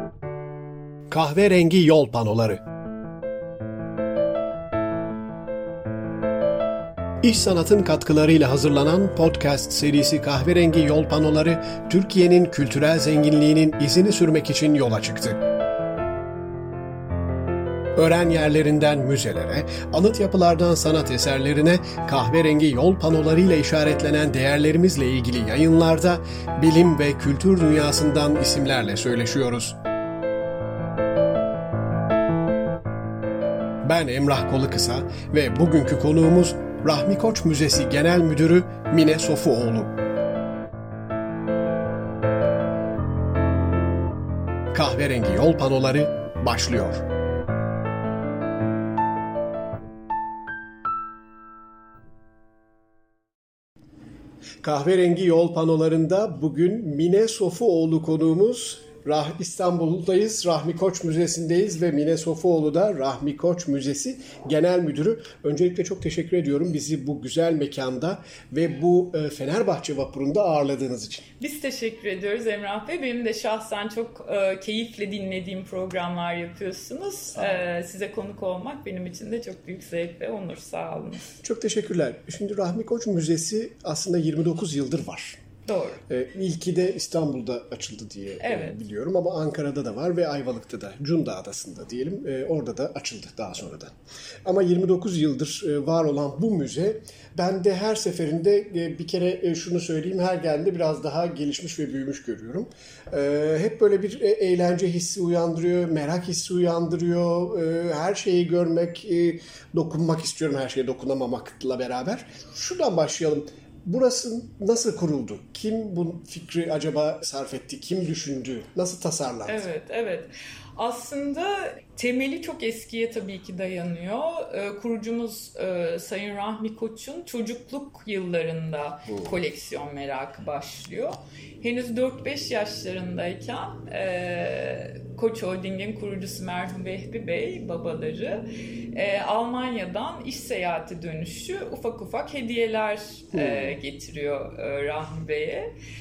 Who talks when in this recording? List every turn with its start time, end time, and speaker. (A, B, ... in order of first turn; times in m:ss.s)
0:01.1-0:02.6 A
0:07.2-0:15.4 A
0:18.0-0:29.8 A
0:33.8-0:40.0 A
0:44.7-0:47.0 A
0:54.6-1:11.3 A
1:11.4-1:21.3 B
1:17.3-1:17.6 A
1:21.4-1:25.4 A
1:25.7-1:26.0 B
1:26.1-1:33.9 A
1:28.4-1:28.8 B
1:34.4-1:59.7 A
1:59.4-2:25.7 B
2:09.1-2:09.4 A
2:23.3-2:23.8 A